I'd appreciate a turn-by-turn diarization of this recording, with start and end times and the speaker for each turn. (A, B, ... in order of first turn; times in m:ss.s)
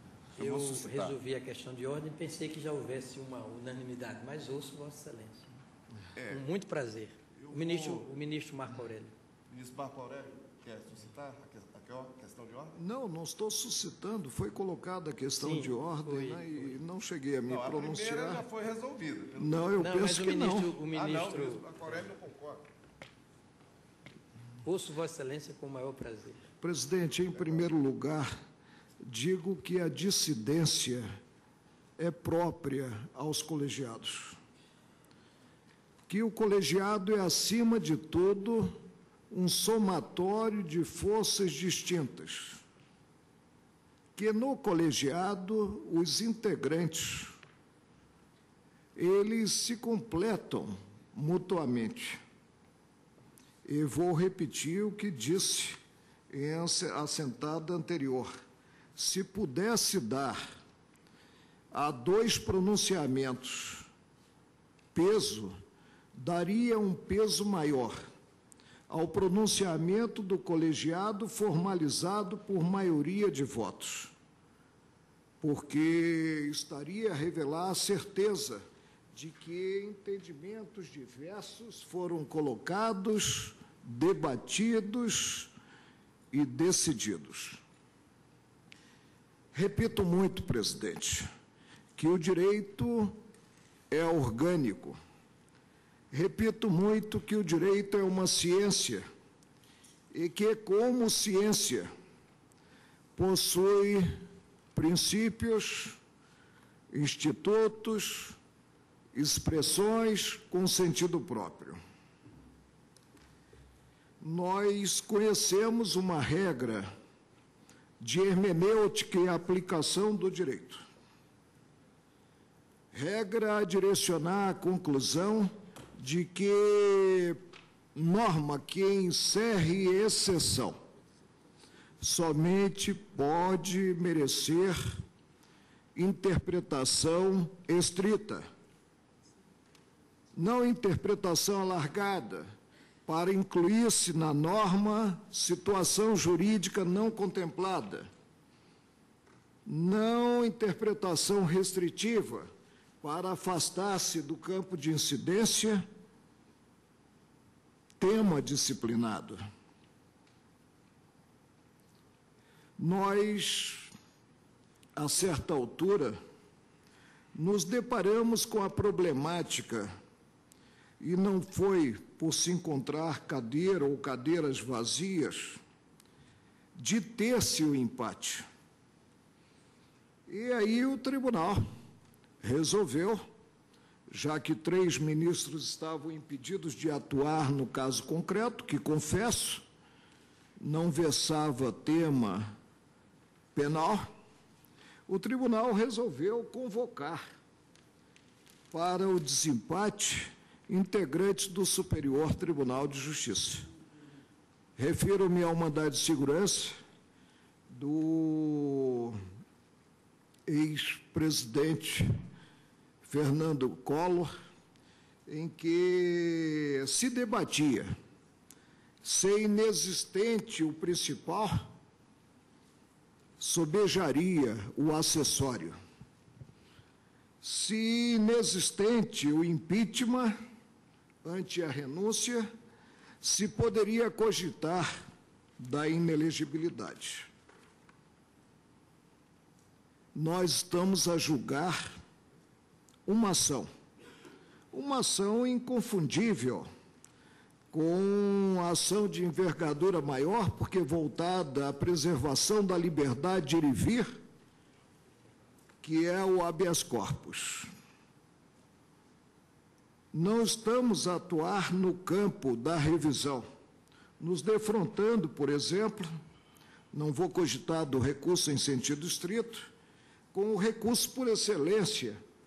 0:00.4-0:01.1 A
0:00.4-0:05.5 B
0:06.2-0:06.4 A
0:06.3-0:09.1 B
0:07.4-0:08.1 A
0:09.5-0:12.8 A
0:12.8-0:18.4 C
0:15.4-0:16.8 B
0:17.5-0:19.7 A
0:19.4-0:20.7 C
0:19.8-0:22.1 B
0:20.8-0:22.6 A
0:24.6-0:26.4 B
0:26.6-0:28.3 C
0:27.4-0:27.6 A
0:29.0-0:31.1 C
0:32.0-0:34.4 C
0:36.1-0:38.8 C
0:39.3-0:42.6 C
0:44.2-0:47.4 C
0:49.0-0:52.2 C
0:53.6-0:55.8 C
0:56.3-0:58.3 C
0:59.0-1:00.4 C
1:01.7-1:03.9 C
1:04.9-1:05.6 C
1:06.1-1:08.0 C
1:08.9-1:14.1 C
1:15.4-1:25.5 C
1:26.3-1:27.6 C
1:29.5-1:31.3 C
1:32.0-1:33.2 C
1:33.9-1:35.0 C
1:36.1-1:39.0 C
1:40.1-1:41.9 C
1:43.2-1:44.1 C
1:44.8-1:46.0 C
1:46.9-1:48.4 C
1:49.1-1:51.8 C
1:54.2-1:56.9 C
1:58.0-2:00.8 C
2:02.9-2:07.4 C
2:07.9-2:10.8 C
2:12.0-2:14.8 C
2:16.0-2:18.4 C
2:20.4-2:22.5 C
2:23.1-2:28.1 C
2:29.6-2:32.5 C
2:33.0-2:35.8 C
2:38.0-2:39.4 C
2:42.8-2:43.9 C
2:45.0-2:46.2 C
2:47.4-2:49.9 C
2:51.0-2:55.6 C
2:56.8-2:58.4 C
3:00.3-3:01.6 C
3:02.4-3:03.2 C
3:04.1-3:09.6 C
3:10.6-3:12.5 C
3:13.6-3:14.1 C
3:15.1-3:17.2 C
3:18.7-3:23.7 C
3:24.8-3:26.8 C
3:27.7-3:29.2 C
3:30.5-3:32.1 C
3:33.0-3:34.3 C
3:35.3-3:37.9 C
3:39.0-3:41.7 C
3:43.4-3:45.8 C
3:47.4-3:50.4 C
3:51.2-3:52.5 C
3:53.2-3:54.9 C
3:55.6-3:57.3 C
4:00.1-4:01.8 C
4:03.1-4:03.7 C
4:04.7-4:06.7 C
4:07.7-4:14.1 C
4:15.8-4:17.7 C
4:20.1-4:23.5 C
4:24.2-4:26.1 C
4:26.9-4:29.7 C
4:30.3-4:32.2 C